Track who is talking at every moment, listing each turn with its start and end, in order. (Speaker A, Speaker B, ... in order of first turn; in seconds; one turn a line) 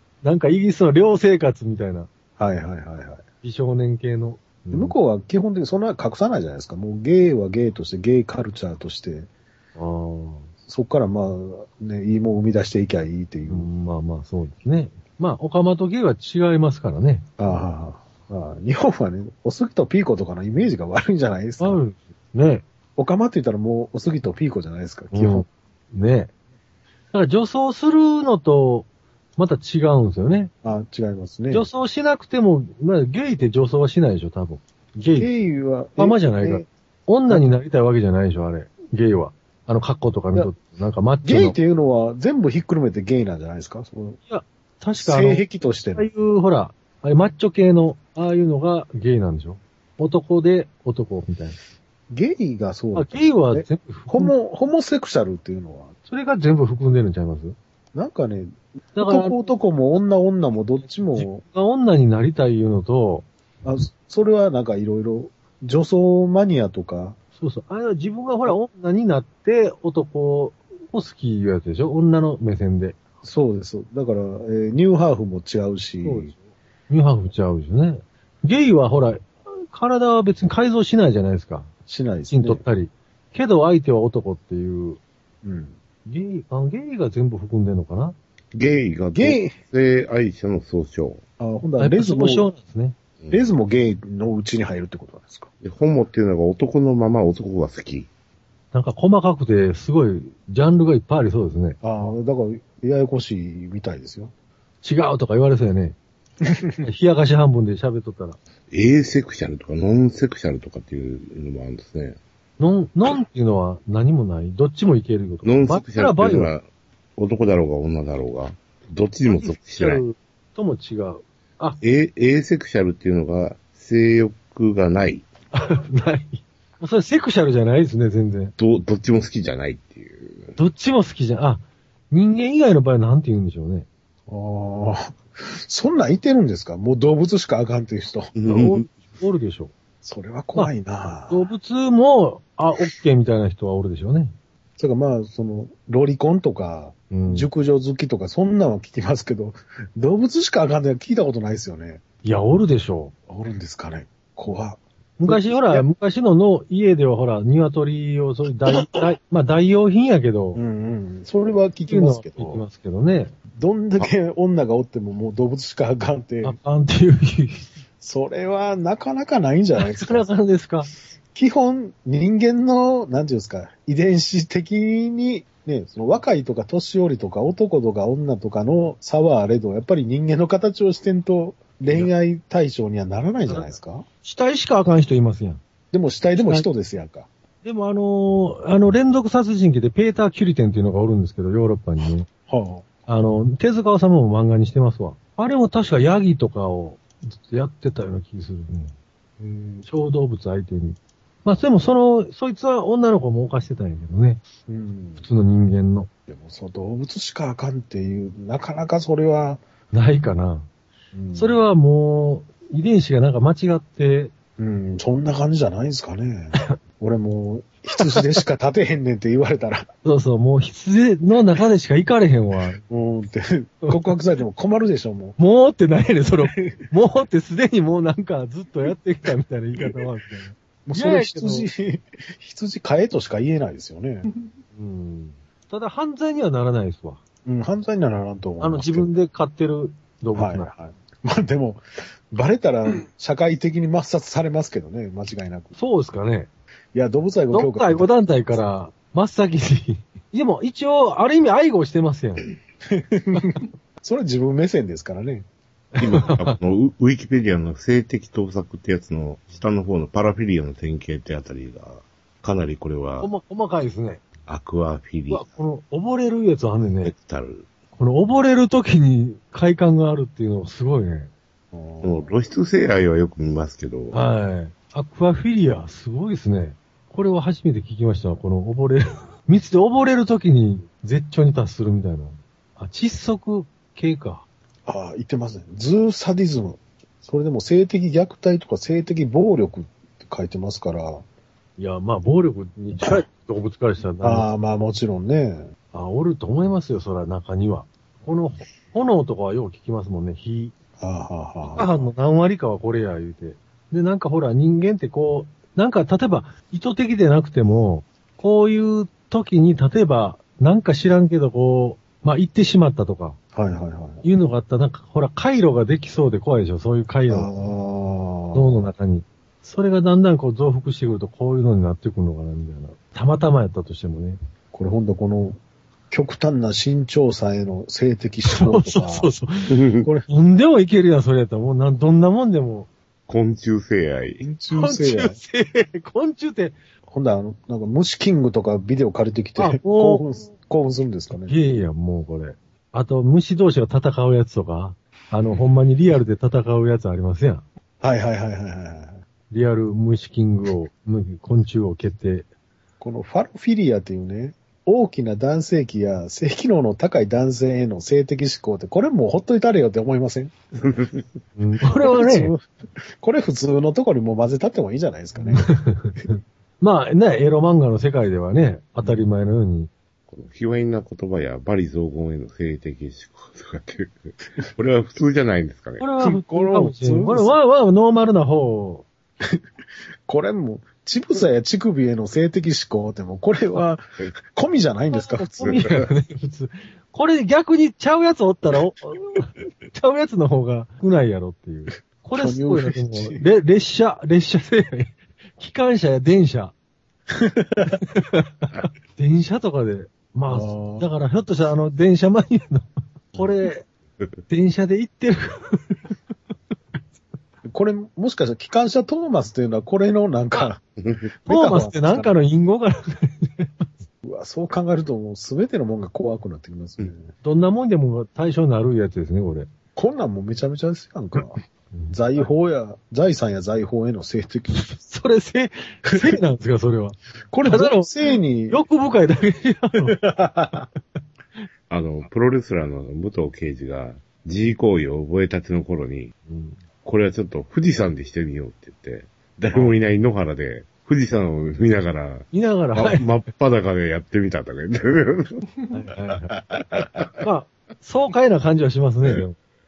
Speaker A: 0.2-2.1
Speaker B: 2.4-3.2
Speaker A: 3.4-5.0
Speaker B: 4.7-9.3
Speaker A: 9.8-10.5
Speaker B: 10.7-13.7
Speaker A: 13.5-17.3
Speaker B: 17.4-21.8
Speaker A: 21.6-22.6
Speaker B: 22.9-25.4
Speaker A: 25.1-26.3
Speaker A: 27.1-30.5
Speaker B: 30.6-31.6
Speaker A: 31.5-35.3
Speaker B: 35.2-36.7
Speaker A: 36.0-41.6
Speaker B: 41.2-44.2
Speaker A: 44.3-45.4
Speaker B: 45.0-46.1
Speaker A: 45.9-51.6
Speaker B: 52.1-55.9
Speaker A: 52.9-54.3
Speaker A: 56.1-57.5
Speaker B: 57.9-61.4
Speaker A: 59.0-59.5
Speaker A: 61.0-63.3
Speaker B: 63.6-67.2
Speaker A: 67.4-73.0
Speaker B: 73.2-76.3
Speaker A: 76.0-76.4
Speaker A: 76.9-81.7
Speaker B: 81.9-82.6
Speaker A: 82.3-85.0
Speaker B: 85.4-85.7
Speaker A: 86.0-88.2
Speaker C: 88.5-91.2
Speaker B: 89.1-89.6
Speaker B: 91.4-92.5
Speaker A: 91.8-93.0
Speaker B: 93.3-95.5
Speaker C: 95.6-98.1
Speaker A: 98.7-101.8
Speaker B: 101.8-104.3
Speaker A: 104.8-106.0
Speaker B: 106.4-106.9
Speaker A: 106.8-108.4
Speaker C: 108.7-112.2
Speaker A: 112.6-116.5
Speaker C: 115.4-116.7
Speaker C: 117.2-120.0
Speaker A: 119.2-121.8
Speaker C: 121.8-125.2
Speaker A: 125.5-128.5
Speaker C: 128.6-130.6
Speaker A: 130.6-133.9
Speaker B: 134.3-138.3
Speaker C: 138.3-138.8
Speaker A: 138.4-139.7
Speaker B: 140.0-141.5
Speaker A: 141.3-144.3
Speaker B: 144.8-152.0
Speaker A: 147.1-147.5
Speaker A: 152.2-153.1
Speaker B: 153.3-155.8
Speaker A: 155.2-160.6
Speaker B: 160.5-162.6
Speaker A: 161.9-163.3
Speaker B: 163.5-166.6
Speaker A: 166.4-167.7
Speaker B: 168.0-170.2
Speaker A: 169.8-170.9
Speaker B: 171.3-184.0
Speaker A: 183.5-185.6
Speaker B: 185.9-187.3
Speaker A: 186.4-186.7
Speaker A: 187.6-192.3
Speaker B: 192.5-192.8
Speaker A: 193.1-198.9
Speaker B: 199.4-199.8
Speaker A: 199.8-204.4
Speaker B: 204.7-205.3
Speaker A: 205.2-206.1
Speaker B: 206.3-209.6
Speaker A: 209.9-210.7
Speaker B: 211.1-211.6
Speaker A: 211.3-214.3
Speaker B: 214.6-219.9
Speaker A: 218.0-218.4
Speaker A: 220.0-222.8
Speaker B: 222.9-225.4
Speaker A: 225.4-231.7
Speaker B: 230.8-234.3
Speaker A: 234.7-237.2
Speaker B: 237.4-239.1
Speaker A: 238.6-240.7
Speaker B: 240.3-245.7
Speaker A: 245.8-246.5
Speaker B: 246.9-248.1
Speaker A: 247.5-252.5
Speaker B: 252.9-255.5
Speaker A: 255.9-256.6
Speaker C: 256.0-263.3
Speaker A: 263.2-264.2
Speaker C: 264.4-265.5
Speaker A: 265.3-267.1
Speaker C: 267.0-267.7
Speaker A: 267.9-271.3
Speaker B: 271.7-272.3
Speaker C: 272.0-274.2
Speaker A: 274.1-284.4
Speaker B: 284.9-291.2
Speaker A: 291.8-294.5
Speaker B: 294.2-295.7
Speaker A: 295.9-300.7
Speaker B: 301.0-302.1
Speaker A: 301.7-313.4
Speaker B: 313.5-314.2
Speaker A: 314.2-317.5
Speaker B: 317.3-318.9
Speaker A: 318.5-324.4
Speaker B: 324.7-325.6
Speaker B: 326.1-329.3
Speaker A: 328.5-329.8
Speaker C: 329.7-330.1
Speaker A: 330.3-332.9
Speaker C: 333.3-334.4
Speaker B: 334.4-335.4
Speaker A: 334.7-336.8
Speaker B: 337.1-341.6
Speaker A: 339.6-340.2
Speaker A: 341.4-347.6
Speaker B: 348.0-349.2
Speaker A: 349.5-352.5
Speaker B: 353.0-360.5
Speaker C: 360.8-361.2
Speaker A: 361.6-362.5
Speaker B: 361.9-362.7
Speaker B: 363.2-365.7
Speaker A: 365.5-369.9
Speaker C: 370.3-376.1
Speaker A: 376.0-379.1
Speaker B: 376.2-377.6
Speaker B: 380.2-385.9
Speaker A: 385.1-396.7
Speaker B: 392.4-393.4
Speaker B: 397.3-398.0
Speaker A: 397.9-403.8
Speaker B: 400.5-401.1
Speaker A: 404.5-406.0
Speaker B: 407.7-410.8
Speaker B: 411.4-412.3
Speaker A: 411.4-413.9
Speaker B: 414.2-417.3
Speaker A: 417.4-419.7
Speaker B: 419.9-421.6
Speaker A: 421.9-422.4
Speaker B: 422.1-424.8
Speaker A: 424.7-430.2
Speaker B: 427.5-428.8
Speaker B: 430.1-430.9
Speaker C: 431.9-436.3
Speaker A: 436.5-436.8
Speaker C: 437.0-445.6
Speaker A: 442.5-443.2
Speaker A: 445.9-446.5
Speaker C: 446.9-447.3
Speaker A: 447.4-449.6